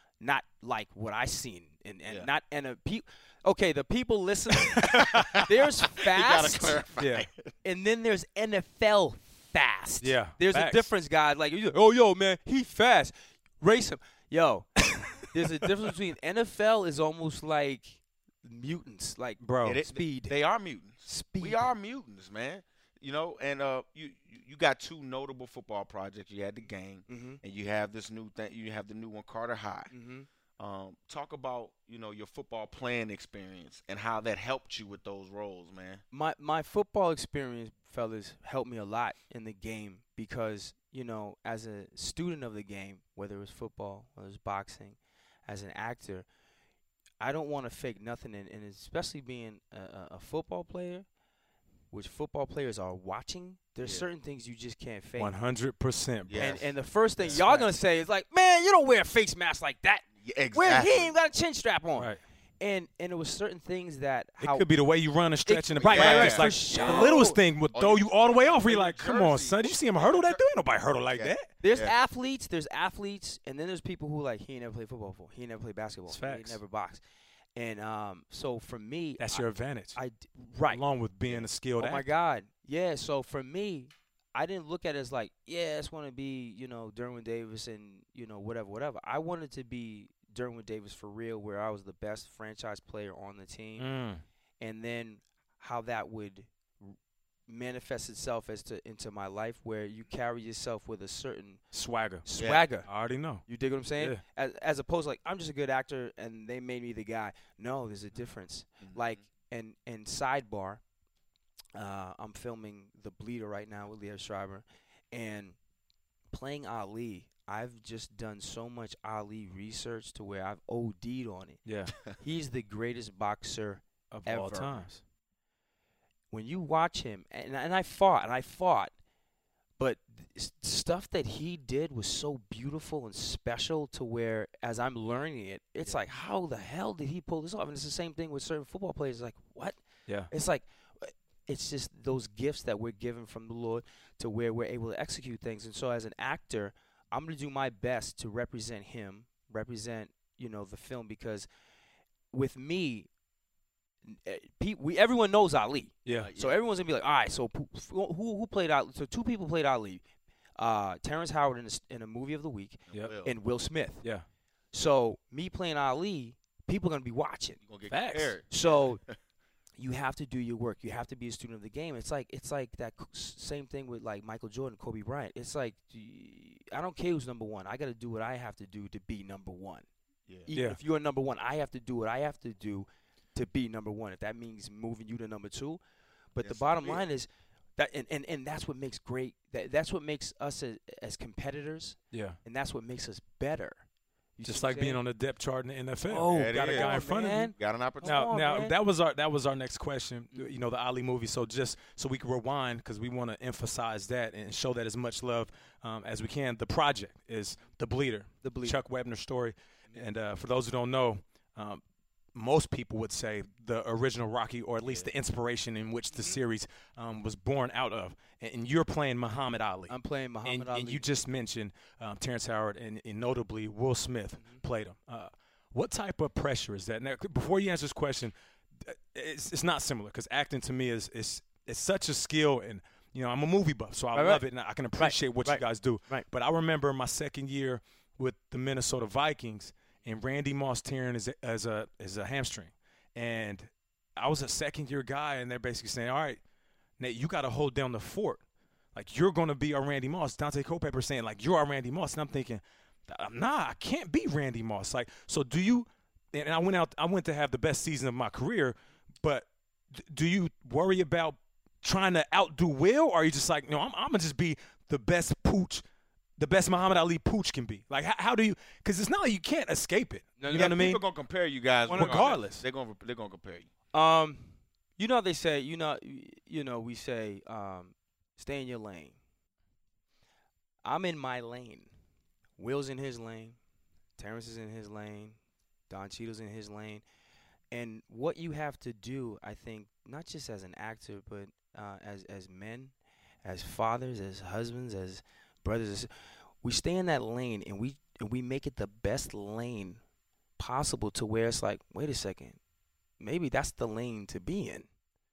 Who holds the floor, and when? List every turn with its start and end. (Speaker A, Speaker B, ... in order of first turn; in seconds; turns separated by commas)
Speaker A: 0.2-6.8, Speaker B: 4.7-7.5, Speaker C: 4.8-5.3, Speaker C: 7.0-7.3, Speaker A: 7.6-20.4, Speaker C: 10.0-10.9, Speaker C: 19.4-19.8, Speaker B: 19.6-29.9, Speaker A: 21.1-21.7, Speaker A: 27.1-27.4, Speaker A: 29.9-30.3, Speaker B: 30.6-36.0, Speaker A: 36.1-46.2, Speaker A: 47.2-51.1, Speaker A: 51.9-55.4, Speaker B: 53.8-54.1, Speaker C: 55.2-56.6, Speaker B: 56.3-57.4, Speaker A: 56.4-64.7, Speaker C: 57.3-57.7, Speaker B: 60.2-61.1, Speaker C: 64.4-71.5, Speaker A: 65.5-67.4, Speaker B: 65.8-67.1, Speaker B: 67.7-70.4, Speaker B: 71.1-71.9, Speaker A: 71.6-77.0, Speaker C: 76.1-76.6, Speaker A: 77.6-80.8, Speaker C: 79.2-80.0, Speaker C: 80.7-82.1, Speaker A: 81.8-93.9, Speaker C: 93.8-94.2, Speaker A: 94.6-97.0, Speaker A: 97.5-101.6, Speaker C: 101.7-102.2, Speaker A: 102.2-102.9, Speaker B: 102.4-102.6, Speaker C: 102.8-103.4, Speaker A: 103.5-110.8, Speaker B: 108.8-109.2, Speaker A: 111.8-115.6, Speaker A: 116.3-124.9, Speaker C: 121.7-121.9, Speaker C: 124.1-125.0, Speaker A: 126.3-128.9, Speaker A: 129.8-151.5, Speaker A: 152.3-153.1, Speaker A: 154.1-160.0, Speaker C: 156.1-156.3, Speaker B: 156.2-156.6, Speaker A: 160.6-164.0, Speaker B: 162.9-163.3, Speaker A: 164.7-167.6, Speaker B: 167.7-169.1, Speaker C: 167.9-168.4, Speaker A: 168.5-169.0, Speaker A: 169.8-179.9, Speaker A: 180.5-185.8, Speaker C: 180.5-180.8, Speaker A: 186.3-193.8, Speaker B: 186.4-187.1, Speaker C: 192.1-192.4, Speaker A: 194.4-195.0, Speaker C: 194.4-197.5, Speaker A: 196.1-198.8, Speaker B: 196.3-198.3, Speaker C: 198.0-211.8, Speaker A: 208.4-208.8, Speaker C: 212.3-219.9, Speaker A: 219.9-221.1, Speaker C: 220.4-246.4, Speaker A: 234.1-234.4, Speaker A: 235.0-236.2, Speaker C: 247.0-248.4, Speaker C: 248.9-265.8, Speaker C: 266.4-271.0, Speaker A: 270.4-270.8, Speaker B: 270.5-273.7, Speaker A: 271.9-272.3, Speaker C: 271.9-272.6, Speaker A: 273.9-279.2, Speaker A: 280.8-281.9, Speaker A: 282.6-283.6, Speaker A: 284.2-285.4, Speaker A: 285.9-287.0, Speaker A: 287.7-296.1, Speaker A: 296.6-300.0, Speaker A: 300.6-302.6, Speaker A: 303.2-304.9